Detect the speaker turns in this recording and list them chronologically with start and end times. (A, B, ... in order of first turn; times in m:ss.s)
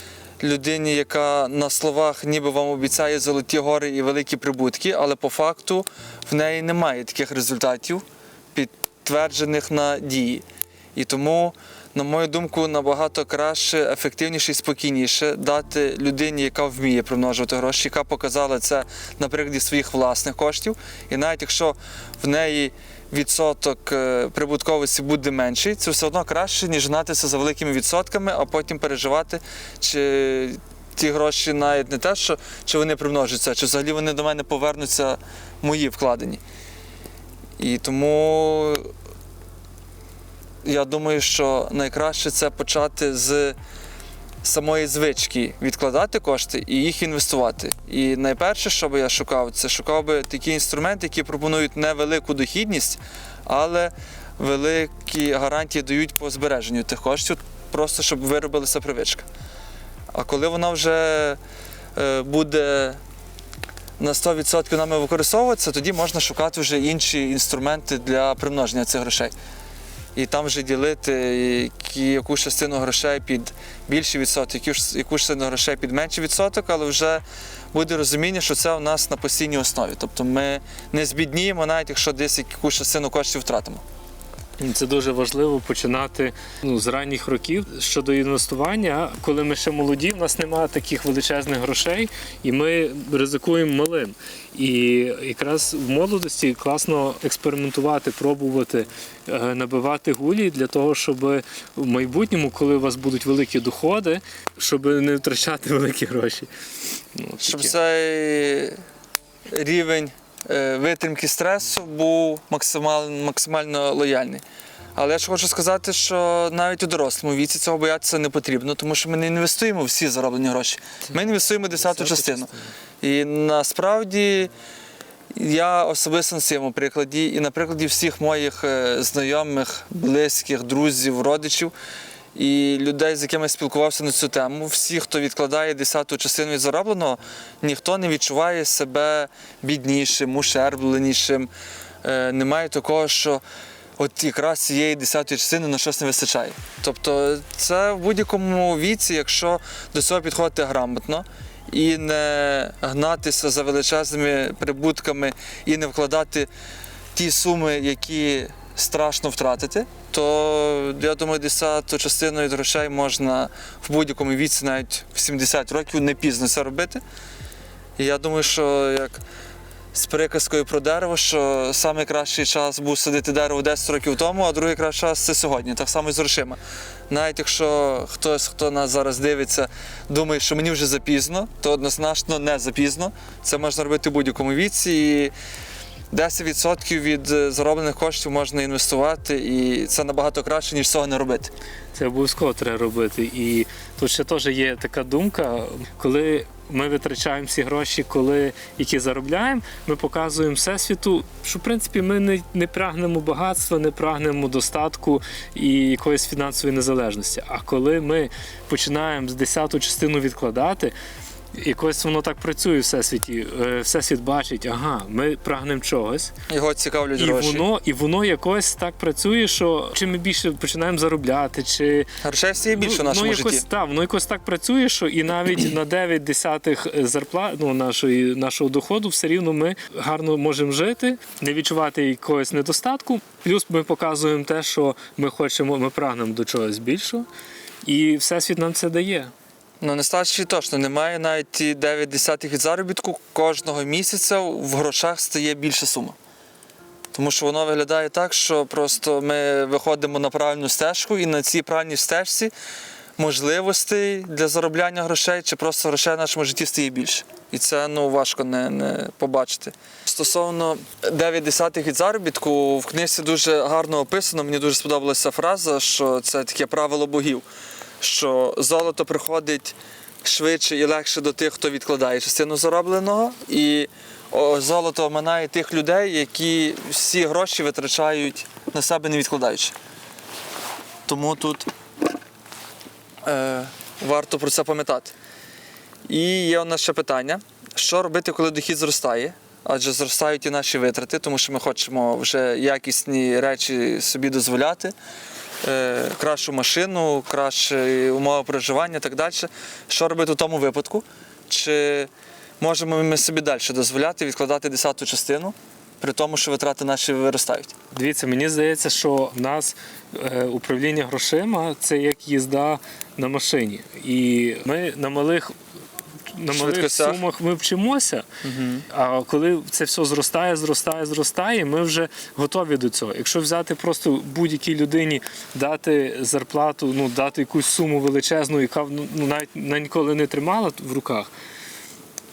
0:00.4-0:36.4 A
0:37.6-0:38.9 A
0:40.6-0:43.6 A
0:44.4-0:59.2 A
1:00.1-1:01.4 A
1:02.0-1:03.0 A
1:04.0-1:09.3 A
1:10.1-1:23.8 A
1:24.6-1:46.5 B
1:47.1-1:47.7 B
1:47.4-1:48.8 A
1:49.5-1:54.4 A
1:55.0-2:02.5 A
2:01.7-2:02.7 B
2:03.0-2:04.5 A
2:05.3-2:11.7 A
2:12.3-2:21.5 A
2:22.0-2:23.4 A
2:24.0-2:36.5 A
2:37.1-2:47.0 A
2:48.0-2:49.2 A
2:49.9-3:05.3 A
3:06.1-3:11.5 A
3:11.9-3:30.9 B
3:31.5-3:36.3 B
3:36.5-3:37.7 A
3:37.2-3:42.1 B
3:42.2-3:43.6 A
3:42.7-3:57.2 B
3:57.8-3:59.3 B
3:59.8-4:06.2 A
4:07.1-4:12.5 A
4:13.2-4:27.4 A
4:28.0-4:39.7 A
4:41.1-4:41.7 A
4:43.2-4:45.1 A
4:46.1-4:54.9 A
4:55.6-5:07.7 A
5:07.9-5:15.5 B
5:16.3-5:18.2 B
5:16.5-5:17.2 A
5:18.4-5:18.8 A
5:18.9-5:31.3 B